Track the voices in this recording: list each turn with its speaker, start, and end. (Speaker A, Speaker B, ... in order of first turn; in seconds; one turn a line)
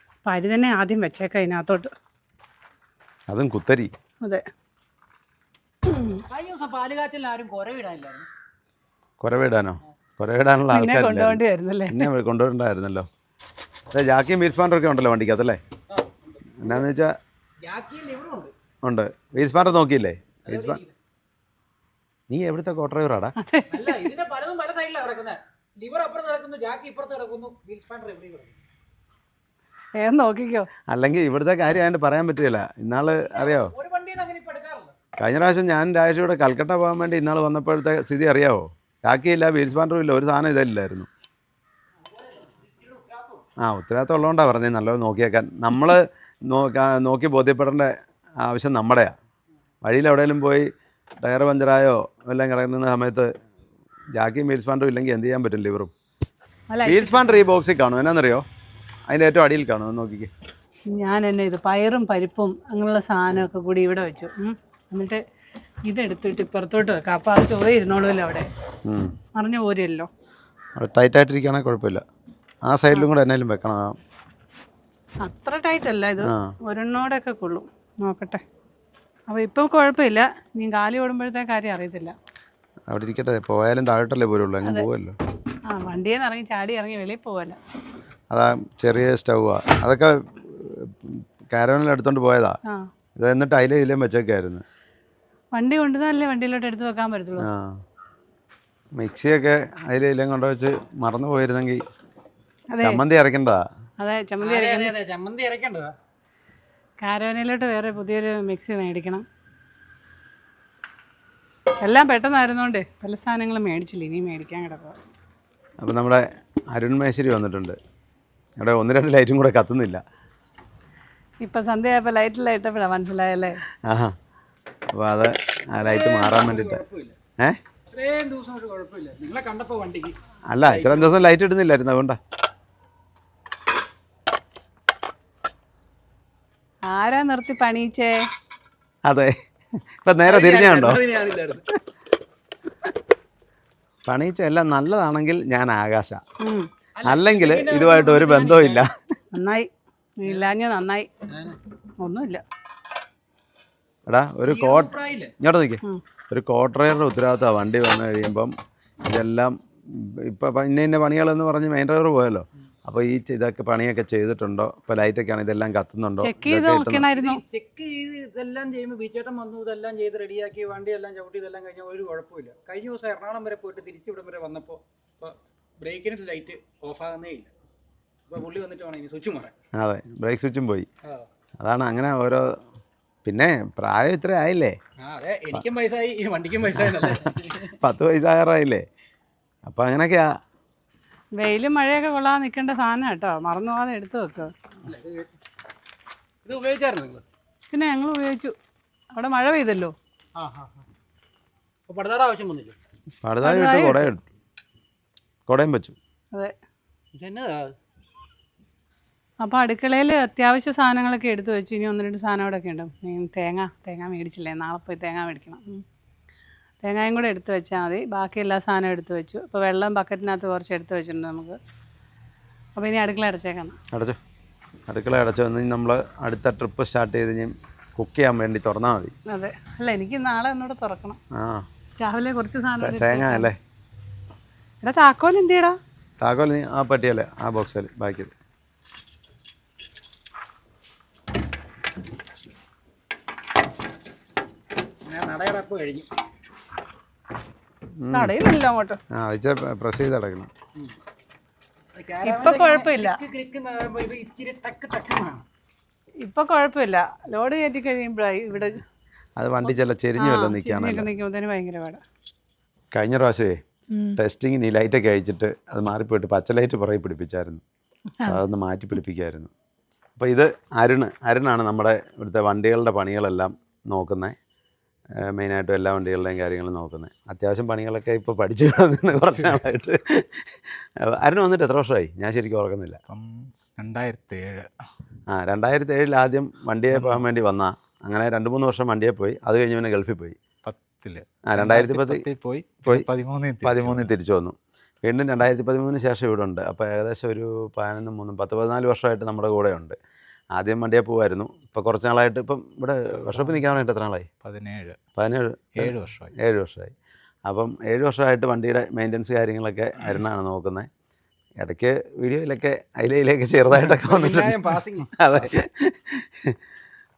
Speaker A: 0.2-1.9
Speaker B: 3.3-3.9
Speaker A: 5.9-6.2
Speaker C: 6.3-8.3
Speaker B: 9.2-13.1
Speaker A: 10.7-12.1
Speaker B: 13.9-15.6
Speaker C: 15.9-16.8
Speaker B: 16.6-17.2
Speaker C: 17.6-18.5
Speaker B: 18.8-20.8
Speaker C: 20.4-20.9
Speaker B: 22.3-23.3
Speaker A: 23.4-24.1
Speaker C: 23.7-28.5
Speaker A: 30.0-30.7
Speaker B: 30.9-33.7
Speaker C: 33.3-34.9
Speaker B: 35.2-41.1
Speaker C: 42.0-43.5
Speaker B: 43.6-49.1
Speaker B: 49.8-50.7
Speaker B: 51.2-53.3
Speaker B: 54.1-55.9
Speaker A: 56.7-57.3
Speaker B: 56.9-58.4
Speaker B: 59.1-60.3
Speaker A: 60.9-65.2
Speaker A: 65.8-68.5
Speaker B: 68.8-69.2
Speaker A: 69.3-70.1
Speaker B: 70.8-72.0
Speaker B: 72.7-74.0
Speaker A: 75.2-78.4
Speaker B: 76.2-76.5
Speaker A: 79.3-82.1
Speaker B: 82.9-85.2
Speaker A: 85.7-87.6
Speaker B: 88.3-92.6
Speaker B: 93.2-94.6
Speaker A: 95.5-97.5
Speaker B: 97.4-97.8
Speaker B: 99.0-101.8
Speaker A: 102.7-103.0
Speaker B: 102.8-103.7
Speaker A: 104.0-104.9
Speaker C: 104.4-105.9
Speaker A: 107.0-109.2
Speaker A: 111.8-115.0
Speaker B: 115.8-117.8
Speaker B: 118.6-120.0
Speaker A: 121.4-123.6
Speaker B: 123.8-124.2
Speaker B: 124.9-126.8
Speaker C: 125.8-127.2
Speaker C: 127.9-131.1
Speaker B: 130.5-132.2
Speaker A: 136.9-138.2
Speaker B: 139.1-139.3
Speaker B: 140.0-141.0
Speaker C: 140.2-141.6
Speaker B: 144.1-146.2
Speaker A: 146.4-146.7
Speaker C: 146.9-148.9
Speaker B: 147.0-148.9
Speaker A: 149.3-151.1
Speaker C: 151.3-151.6
Speaker A: 152.0-152.4
Speaker B: 154.1-158.5
Speaker C: 154.4-155.3
Speaker B: 159.0-167.1
Speaker A: 166.2-167.4
Speaker C: 167.2-177.5
Speaker C: 178.3-179.5
Speaker B: 179.8-180.9
Speaker B: 181.6-182.5
Speaker B: 183.2-184.8
Speaker C: 185.0-187.8
Speaker B: 186.8-188.8
Speaker B: 189.7-190.3
Speaker A: 191.4-194.5
Speaker C: 194.8-195.3
Speaker C: 196.4-197.2
Speaker A: 197.7-198.5
Speaker A: 199.1-199.9
Speaker C: 200.3-200.8
Speaker C: 201.9-202.8
Speaker B: 203.2-204.2
Speaker A: 203.4-204.1
Speaker B: 205.5-205.9
Speaker C: 207.1-207.7
Speaker A: 209.4-215.8
Speaker A: 216.8-221.6
Speaker A: 222.8-223.8
Speaker B: 223.9-224.2
Speaker B: 224.9-229.1
Speaker A: 229.3-231.2
Speaker B: 231.3-231.7
Speaker A: 232.0-233.5
Speaker B: 232.8-233.6
Speaker A: 234.8-235.8
Speaker B: 236.2-238.3
Speaker C: 245.1-246.1
Speaker B: 248.0-248.3
Speaker A: 248.1-249.0
Speaker B: 249.1-250.5
Speaker C: 251.9-255.4
Speaker A: 252.2-253.2
Speaker A: 256.2-258.8
Speaker B: 259.4-261.1
Speaker A: 260.2-262.0
Speaker B: 262.9-263.6
Speaker A: 263.9-264.2
Speaker B: 264.2-267.6
Speaker B: 268.3-269.5
Speaker B: 270.1-274.4
Speaker B: 275.2-283.0
Speaker D: 283.1-284.7
Speaker B: 285.3-290.4
Speaker D: 286.9-287.2
Speaker D: 290.6-294.1
Speaker B: 291.5-292.2
Speaker B: 293.6-299.9
Speaker B: 300.6-304.3
Speaker D: 303.3-303.6
Speaker D: 304.4-305.0
Speaker B: 305.2-306.9
Speaker D: 305.8-306.3
Speaker B: 307.5-310.9
Speaker B: 311.6-316.6
Speaker C: 313.8-315.1